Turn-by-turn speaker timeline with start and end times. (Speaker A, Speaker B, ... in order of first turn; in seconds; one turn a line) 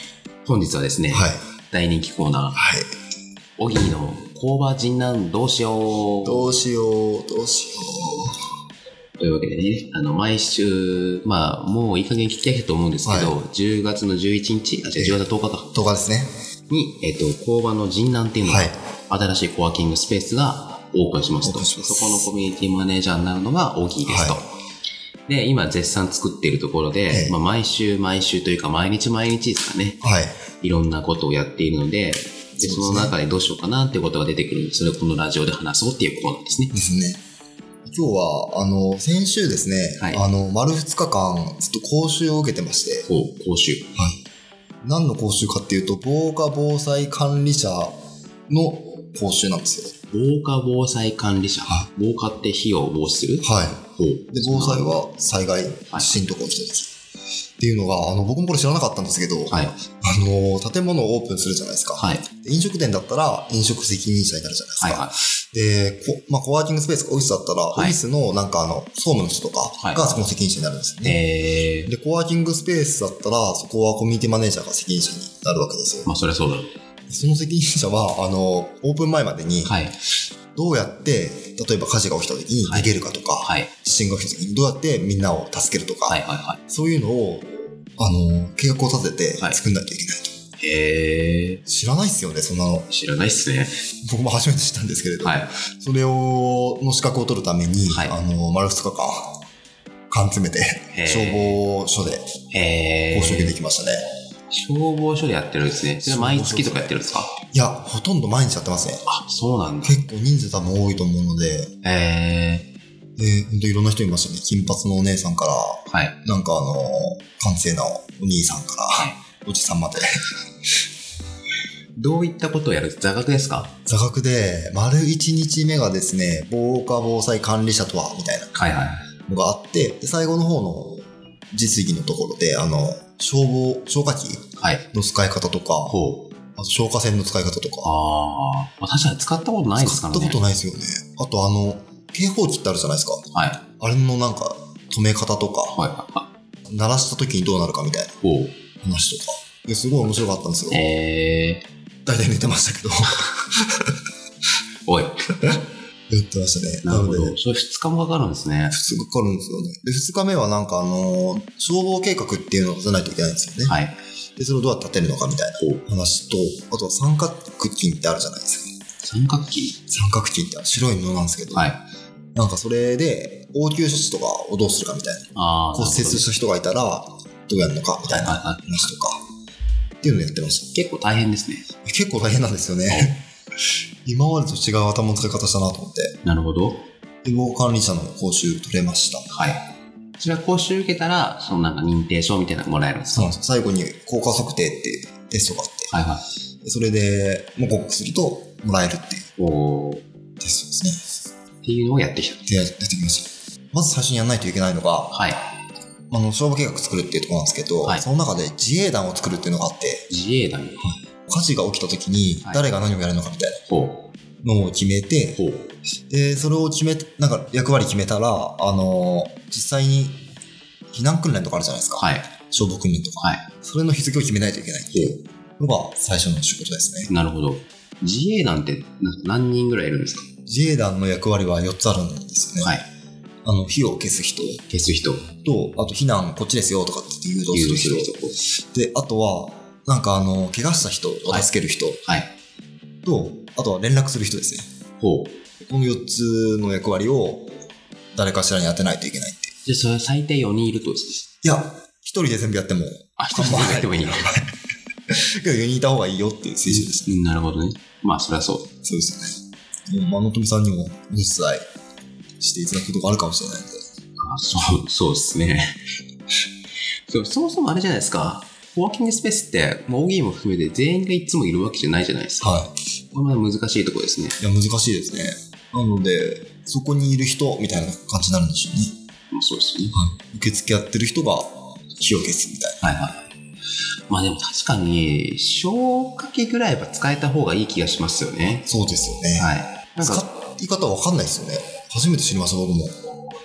Speaker A: 0.5-2.6
Speaker B: 1.1-1.4
Speaker B: 2.5-2.9
Speaker A: 3.6-6.6
Speaker B: 6.2-8.4
Speaker A: 9.2-15.7
Speaker B: 13.1-13.4
Speaker B: 15.0-16.3
Speaker A: 16.7-24.5
Speaker B: 18.4-18.8
Speaker B: 21.4-22.3
Speaker B: 24.1-24.4
Speaker A: 25.3-30.0
Speaker B: 27.1-27.4
Speaker B: 30.0-30.4
Speaker A: 30.6-36.7
Speaker B: 32.6-33.1
Speaker B: 36.7-37.2
Speaker B: 37.9-43.1
Speaker A: 40.0-40.2
Speaker A: 43.1-43.9
Speaker B: 44.8-48.0
Speaker B: 48.5-49.9
Speaker A: 50.1-55.0
Speaker B: 53.4-56.9
Speaker A: 55.9-56.3
Speaker B: 57.6-71.2
Speaker A: 59.5-59.8
Speaker A: 62.0-62.2
Speaker A: 64.8-65.2
Speaker A: 67.7-68.0
Speaker A: 69.8-70.2
Speaker A: 71.0-71.9
Speaker B: 71.9-76.1
Speaker A: 76.1-76.8
Speaker B: 77.1-79.8
Speaker A: 79.7-80.0
Speaker B: 80.5-90.3
Speaker A: 82.7-83.7
Speaker A: 86.1-86.6
Speaker A: 90.6-91.6
Speaker B: 91.7-92.9
Speaker A: 92.9-93.8
Speaker B: 94.0-99.4
Speaker A: 95.2-95.5
Speaker A: 97.9-98.2
Speaker B: 100.1-102.3
Speaker A: 100.9-101.6
Speaker A: 102.5-103.6
Speaker B: 103.1-104.0
Speaker A: 104.5-107.3
Speaker B: 106.0-107.0
Speaker B: 107.5-109.1
Speaker A: 109.1-110.0
Speaker B: 109.8-111.7
Speaker A: 111.8-112.7
Speaker B: 113.2-120.1
Speaker A: 115.9-116.2
Speaker A: 122.0-123.8
Speaker B: 123.9-128.5
Speaker A: 128.6-129.1
Speaker B: 129.3-136.0
Speaker A: 134.6-134.8
Speaker A: 135.9-136.3
Speaker B: 136.6-137.9
Speaker A: 137.8-140.4
Speaker B: 139.8-143.2
Speaker A: 143.3-143.6
Speaker B: 143.8-145.8
Speaker A: 145.7-146.3
Speaker B: 146.7-148.1
Speaker A: 148.2-148.6
Speaker B: 148.8-150.8
Speaker A: 150.7-151.7
Speaker B: 152.1-153.9
Speaker A: 154.9-155.2
Speaker B: 155.4-157.4
Speaker A: 156.8-158.8
Speaker B: 158.7-163.8
Speaker A: 163.7-164.0
Speaker B: 164.4-168.7
Speaker A: 169.0-169.8
Speaker B: 169.9-171.7
Speaker A: 171.5-171.8
Speaker B: 172.3-179.2
Speaker A: 175.3-176.3
Speaker A: 178.1-178.9
Speaker B: 180.0-180.7
Speaker A: 180.7-181.7
Speaker B: 181.8-183.2
Speaker A: 182.9-183.2
Speaker B: 184.1-186.2
Speaker A: 186.2-186.8
Speaker B: 187.2-189.3
Speaker A: 189.3-189.6
Speaker A: 190.2-193.3
Speaker B: 193.1-195.9
Speaker A: 195.9-196.2
Speaker B: 196.6-199.3
Speaker A: 199.4-200.0
Speaker B: 200.4-201.1
Speaker A: 201.6-202.4
Speaker B: 202.5-205.2
Speaker A: 205.1-205.4
Speaker B: 206.1-210.1
Speaker A: 210.1-210.9
Speaker B: 210.8-213.6
Speaker A: 212.4-212.7
Speaker A: 213.7-214.1
Speaker B: 214.4-215.4
Speaker A: 215.3-215.7
Speaker B: 216.1-220.2
Speaker B: 220.9-227.1
Speaker A: 222.0-222.3
Speaker A: 227.1-230.3
Speaker B: 230.5-232.8
Speaker A: 232.6-232.9
Speaker B: 233.4-234.6
Speaker A: 234.7-235.3
Speaker B: 235.4-238.2
Speaker A: 237.5-238.4
Speaker B: 238.7-242.0
Speaker A: 242.1-242.3
Speaker B: 243.0-244.7
Speaker A: 245.0-245.4
Speaker B: 245.6-247.5
Speaker B: 248.2-249.5
Speaker A: 249.7-251.2
Speaker B: 251.4-254.5
Speaker A: 253.2-254.3
Speaker B: 255.4-257.2
Speaker A: 256.7-258.7
Speaker B: 258.8-261.6
Speaker B: 262.4-263.8
Speaker A: 264.2-265.8
Speaker A: 267.1-274.4
Speaker B: 272.4-272.7
Speaker B: 274.4-279.0
Speaker A: 279.3-280.0
Speaker B: 279.9-282.8
Speaker A: 282.8-283.3
Speaker A: 284.1-288.7
Speaker B: 288.5-292.9
Speaker A: 289.4-290.2